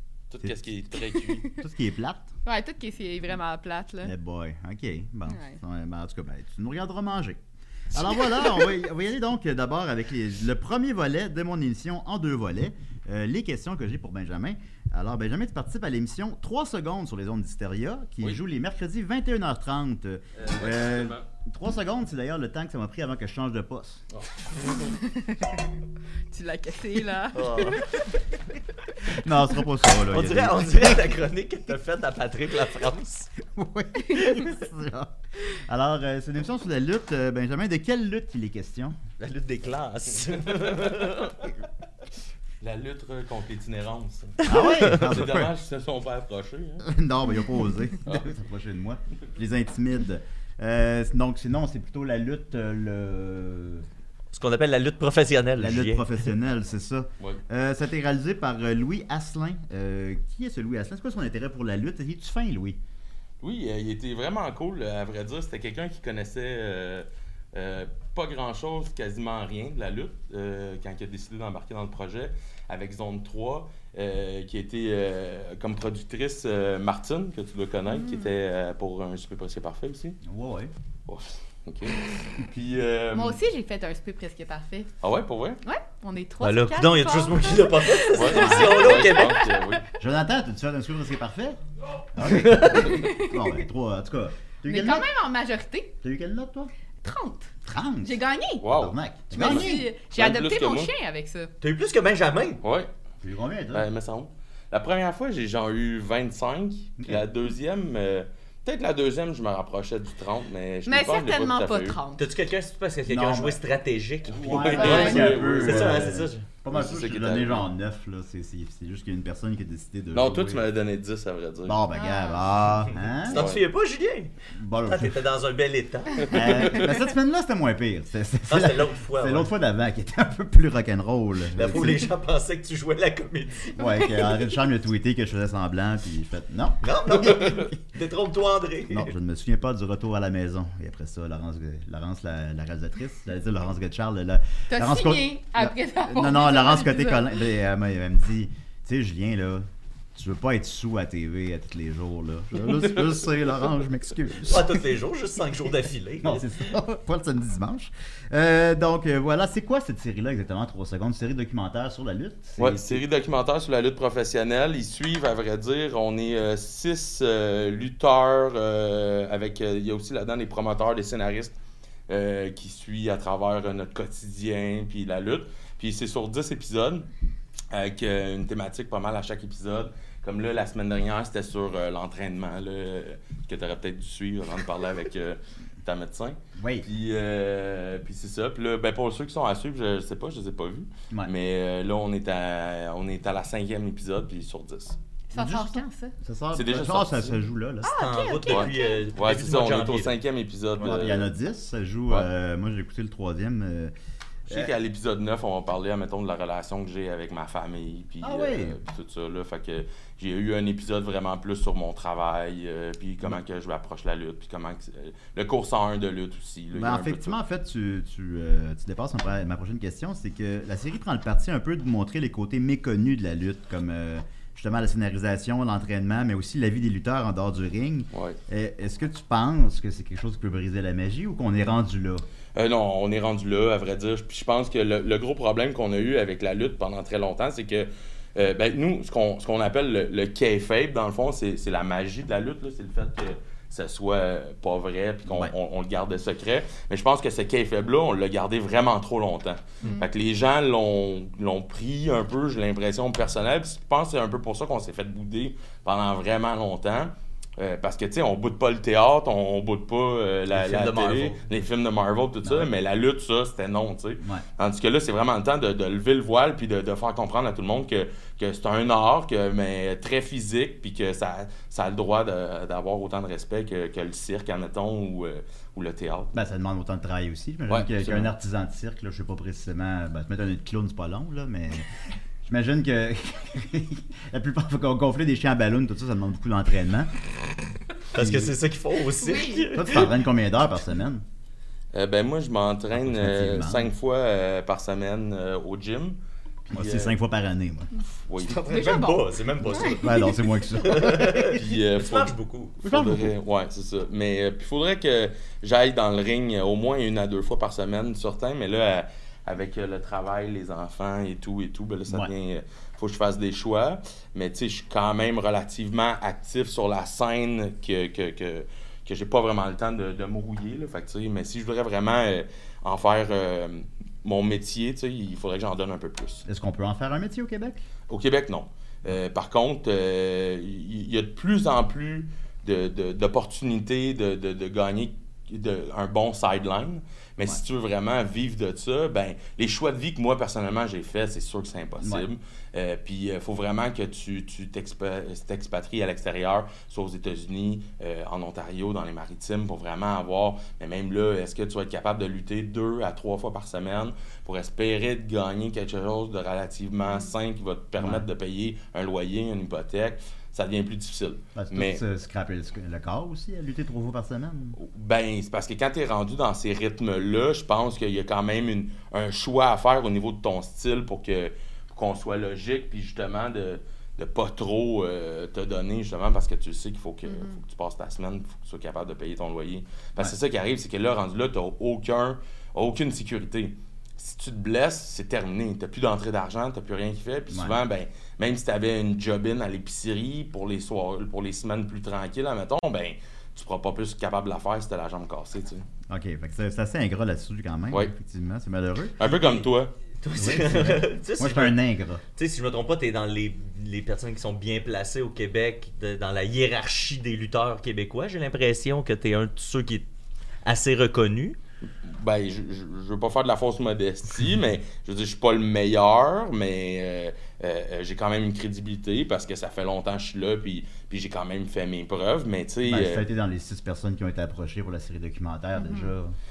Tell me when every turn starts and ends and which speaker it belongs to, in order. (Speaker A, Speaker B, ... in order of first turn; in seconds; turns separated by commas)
Speaker A: 0.3-1.5, Speaker B: 1.1-1.6, Speaker C: 1.6-2.3, Speaker B: 2.5-4.1, Speaker C: 4.0-24.0, Speaker B: 5.3-5.6, Speaker A: 20.4-21.3, Speaker B: 24.9-25.6, Speaker B: 26.3-28.0, Speaker D: 27.3-27.9, Speaker C: 29.0-31.2, Speaker D: 30.1-33.3, Speaker C: 33.4-39.0, Speaker B: 34.1-34.4, Speaker D: 39.2-41.4, Speaker A: 42.6-46.9, Speaker C: 44.4-45.5, Speaker C: 46.8-53.9, Speaker D: 54.3-56.1, Speaker C: 55.6-62.8, Speaker A: 63.4-80.2, Speaker B: 77.9-78.3, Speaker C: 80.2-80.7, Speaker A: 81.1-83.4, Speaker B: 83.1-84.9, Speaker A: 85.0-85.6, Speaker B: 85.6-89.8, Speaker D: 86.4-89.4, Speaker A: 88.1-89.8, Speaker C: 88.3-88.8, Speaker C: 90.0-91.6, Speaker C: 92.2-95.1, Speaker D: 92.2-93.0, Speaker B: 92.8-93.5, Speaker B: 94.7-96.0, Speaker C: 96.0-96.7, Speaker B: 97.0-97.5, Speaker C: 97.7-99.9, Speaker B: 98.0-98.6, Speaker A: 98.6-100.9, Speaker B: 99.3-101.5, Speaker D: 101.6-102.6, Speaker A: 102.6-102.9, Speaker C: 103.2-103.9, Speaker A: 103.7-112.0, Speaker C: 107.0-107.2, Speaker B: 110.9-112.3, Speaker D: 112.2-116.5, Speaker C: 113.1-113.6, Speaker A: 114.3-116.1, Speaker C: 114.3-120.7, Speaker B: 114.8-115.3, Speaker A: 116.7-117.7, Speaker A: 120.1-121.8, Speaker C: 121.7-123.5, Speaker B: 121.9-122.5, Speaker D: 123.2-126.8, Speaker A: 123.3-123.6, Speaker C: 124.5-125.2, Speaker C: 126.3-132.1, Speaker D: 128.5-129.5, Speaker D: 131.5-133.8, Speaker C: 133.7-137.8, Speaker B: 133.8-134.5, Speaker D: 136.8-139.1, Speaker C: 138.9-154.8, Speaker B: 144.7-147.3, Speaker D: 154.4-156.5, Speaker C: 156.2-163.0, Speaker A: 162.6-171.6, Speaker A: 172.1-177.1, Speaker A: 177.7-195.0, Speaker C: 186.6-186.9, Speaker B: 195.3-196.1, Speaker C: 195.3-197.9, Speaker A: 196.5-197.4, Speaker B: 197.8-199.0, Speaker D: 197.9-200.2, Speaker A: 198.5-201.3, Speaker C: 200.8-203.9, Speaker A: 204.5-217.4, Speaker C: 208.2-208.8, Speaker C: 216.7-232.2, Speaker A: 228.1-228.4, Speaker A: 232.6-276.3, Speaker C: 245.3-245.5, Speaker D: 260.5-261.4, Speaker C: 262.4-262.7, Speaker C: 276.3-287.1, Speaker A: 277.7-278.3, Speaker D: 288.1-290.1, Speaker C: 288.1-288.6, Speaker B: 289.2-289.7, Speaker C: 289.7-291.2, Speaker A: 291.9-296.2, Speaker C: 292.9-293.9, Speaker A: 296.7-297.1, Speaker C: 296.7-297.9, Speaker A: 298.3-298.6, Speaker D: 298.4-302.8, Speaker B: 298.7-300.5, Speaker C: 299.7-301.6, Speaker A: 301.5-326.4, Speaker C: 302.8-303.3, Speaker C: 326.4-327.8, Speaker A: 328.1-362.0, Speaker C: 342.0-342.3, Speaker C: 358.0-358.3, Speaker C: 361.6-364.8, Speaker A: 364.8-395.9, Speaker B: 377.3-377.6, Speaker C: 387.5-387.8, Speaker C: 396.1-399.3, Speaker A: 399.2-399.9, Speaker D: 400.2-401.8, Speaker C: 400.4-402.2, Speaker D: 402.3-410.1, Speaker D: 410.6-411.6, Speaker A: 412.0-423.2, Speaker C: 422.8-426.4, Speaker B: 425.8-426.1